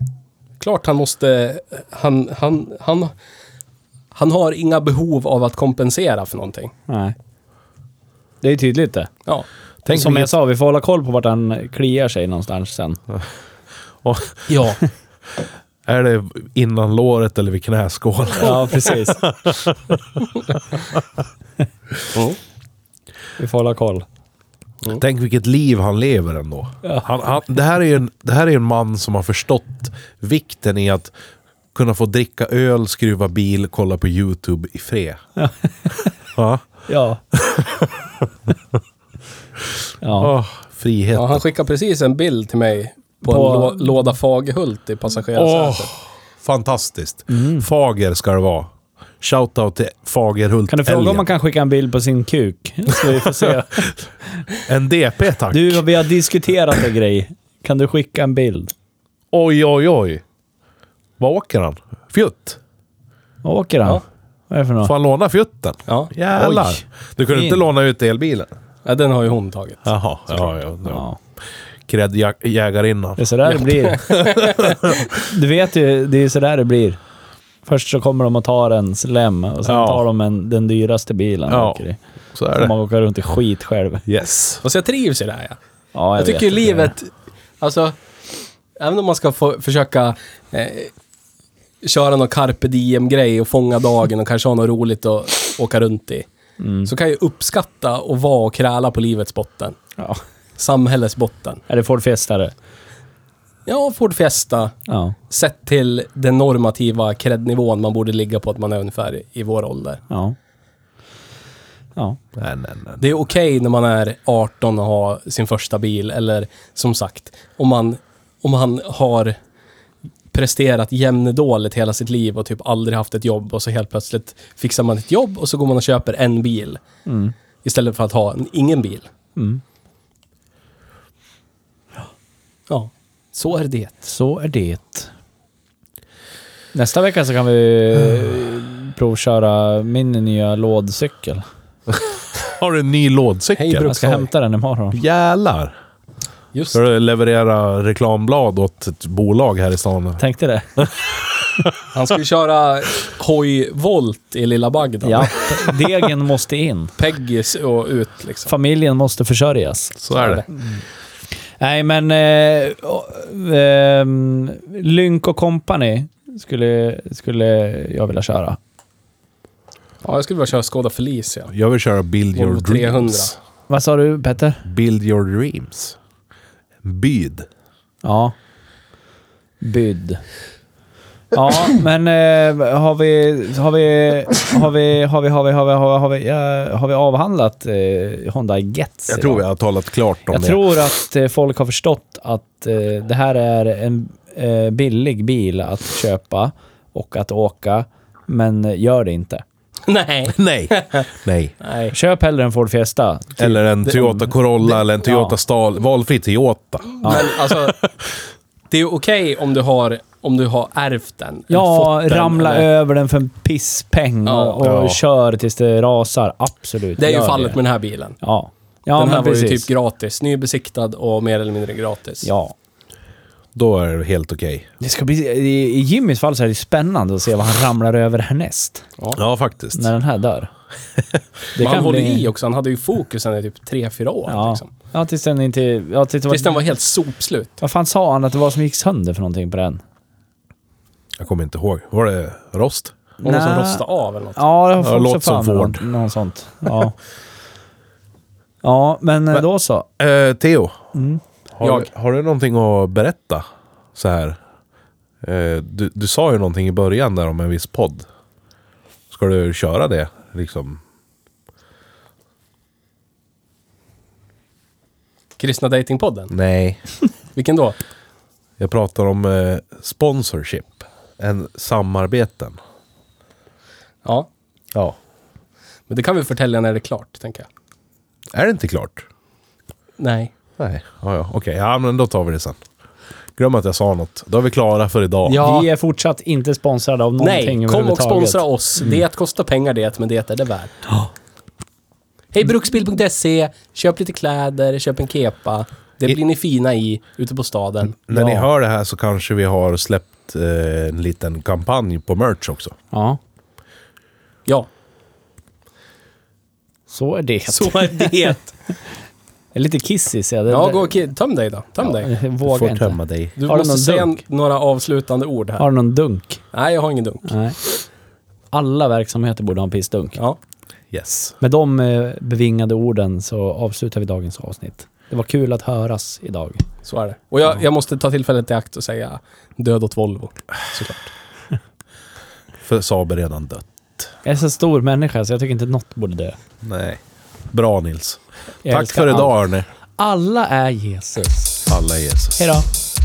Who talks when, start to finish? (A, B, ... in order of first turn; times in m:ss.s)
0:00.6-0:03.1 A
0:04.1-0:06.7 A
0:06.9-0:07.1 B
0:08.4-0:09.1 B
0:09.2-0:10.3 A
0:09.9-0:13.0 B
0:14.0-0:14.4 C
0:14.5-0:14.8 A
0:15.8-0:21.0 C
0:18.3-0:19.2 B
0:23.4-0:24.0 B
0:25.0-0:31.1 C
0:31.7-0:35.2 C
0:35.4-0:36.1 B
0:36.4-0:36.6 C
0:36.9-0:37.2 B
0:37.3-0:37.9 C
0:40.0-0:40.3 B
0:40.2-0:41.4 C
0:41.1-0:45.9 A
0:43.2-0:43.8 B
0:45.3-0:48.7 C
0:47.3-0:47.7 B
0:49.2-0:51.2 C
0:50.7-0:53.9 B
0:53.2-0:53.8 C
0:54.6-0:55.8 C
0:55.5-0:58.7 B
0:59.3-1:00.2 C
1:01.2-1:02.6 C
1:03.4-1:04.9 B
1:04.8-1:08.5 C
1:06.3-1:07.6 B
1:08.8-1:10.5 A
1:09.8-1:11.0 C
1:10.9-1:11.2 B
1:11.9-1:13.2 C
1:13.2-1:14.2 B
1:13.5-1:14.7 A
1:14.0-1:15.0 C
1:15.1-1:17.0 B
1:17.6-1:22.0 B
1:19.6-1:20.0 C
1:21.5-1:21.8 C
1:22.3-1:22.7 C
1:22.5-1:24.0 B
1:24.0-1:24.6 C
1:24.6-1:25.6 A
1:25.9-1:26.9 B
1:26.2-1:28.0 A
1:28.8-1:30.9 A
1:31.8-1:36.3 A
1:36.6-1:36.9 B
1:36.8-1:39.8 A
1:40.6-1:41.6 A
1:41.7-1:42.5 B
1:43.6-1:44.7 A
1:44.9-1:45.2 B
1:45.3-1:50.0 A
1:50.1-1:50.4 B
1:52.4-1:53.0 C
1:53.0-1:59.4 A
2:00.3-2:06.8 A
2:07.0-2:07.3 B
2:07.6-2:09.1 A
2:09.4-2:09.6 B
2:12.7-2:14.1 A
2:14.0-2:15.1 B
2:16.7-2:21.4 B
2:22.4-2:23.9 C
2:23.6-2:24.3 A
2:23.8-2:25.0 B
2:24.9-2:25.7 C
2:26.7-2:30.2 C
2:30.2-2:30.9 B
2:30.8-2:31.6 C
2:31.9-2:35.7 A
2:35.0-2:36.9 B
2:37.0-2:38.5 A
2:38.5-2:40.8 B
2:40.0-2:40.4 C
2:40.1-2:40.4 A
2:41.6-2:48.6 B
2:50.0-2:51.5 A
2:51.5-2:53.4 C
2:52.3-2:53.3 A
2:53.7-2:54.6 B
2:54.6-2:56.0 C
2:56.8-2:57.4 C
2:58.0-2:58.3 B
2:59.6-3:00.2 B
3:01.3-3:09.4 B
3:09.1-3:10.6 C
3:10.3-3:19.4 B
3:19.9-3:21.0 A
3:20.3-3:21.5 C
3:21.6-3:21.9 A
3:21.9-3:23.6 B
3:23.4-3:27.3 C
3:23.8-3:24.2 A
3:25.0-3:25.4 B
3:27.0-3:27.8 A
3:28.7-3:32.7 A
3:31.5-3:37.6 B
3:34.2-3:34.6 A
3:34.6-3:35.0 C
3:37.0-3:38.2 A
3:38.2-3:39.7 B
3:38.9-3:42.3 A
3:42.2-3:42.5 B
3:43.5-3:44.7 C
3:44.8-3:48.9 B
3:49.2-3:49.9 C
3:49.7-3:50.5 B
3:51.5-3:52.3 B
3:51.6-3:54.7 A
3:54.3-3:56.6 B
3:56.3-3:57.6 A
3:57.6-3:59.8 B
4:01.2-4:03.0 C
4:03.2-4:04.4 A
4:03.2-4:03.8 B
4:04.4-4:07.0 B
4:04.8-4:05.8 C
4:08.6-4:09.9 B
4:10.0-4:10.8 C
4:10.9-4:11.2 B
4:11.6-4:14.4 C
4:11.6-4:11.9 A
4:15.2-4:18.0 C
4:19.1-4:20.8 C
4:25.4-4:26.3 A
4:26.3-4:26.8 C
4:27.3-4:27.8 A
4:28.6-4:32.6 C
4:34.0-4:34.3 A
4:35.9-4:37.5 A
4:38.3-4:39.0 C
4:40.0-4:40.3 A
4:40.6-4:42.6 C
4:43.4-4:45.4 C
4:45.2-4:45.7 A
4:45.4-4:48.4 B
4:47.2-4:50.7 A
4:52.3-4:58.4 A
4:58.1-5:02.8 C
5:02.9-5:03.2 B
5:06.9-5:08.1 B
5:07.5-5:08.5 A
5:09.5-5:11.0 B
5:10.5-5:12.1 A
5:11.8-5:14.1 B
5:12.4-5:13.4 C
5:13.4-5:15.7 A
5:15.6-5:16.4 B
5:16.5-5:17.3 A
5:17.2-5:17.6 B
5:18.5-5:20.2 B
5:20.9-5:21.4 C
5:21.4-5:26.6 B
5:26.8-5:31.1 A
5:32.6-5:34.1 C
5:34.2-5:36.4 B
5:36.6-5:37.0 C
5:37.5-5:39.7 C
5:38.6-5:39.3 B
5:40.0-5:41.7 B
5:41.7-5:42.5 C
5:42.4-5:42.6 B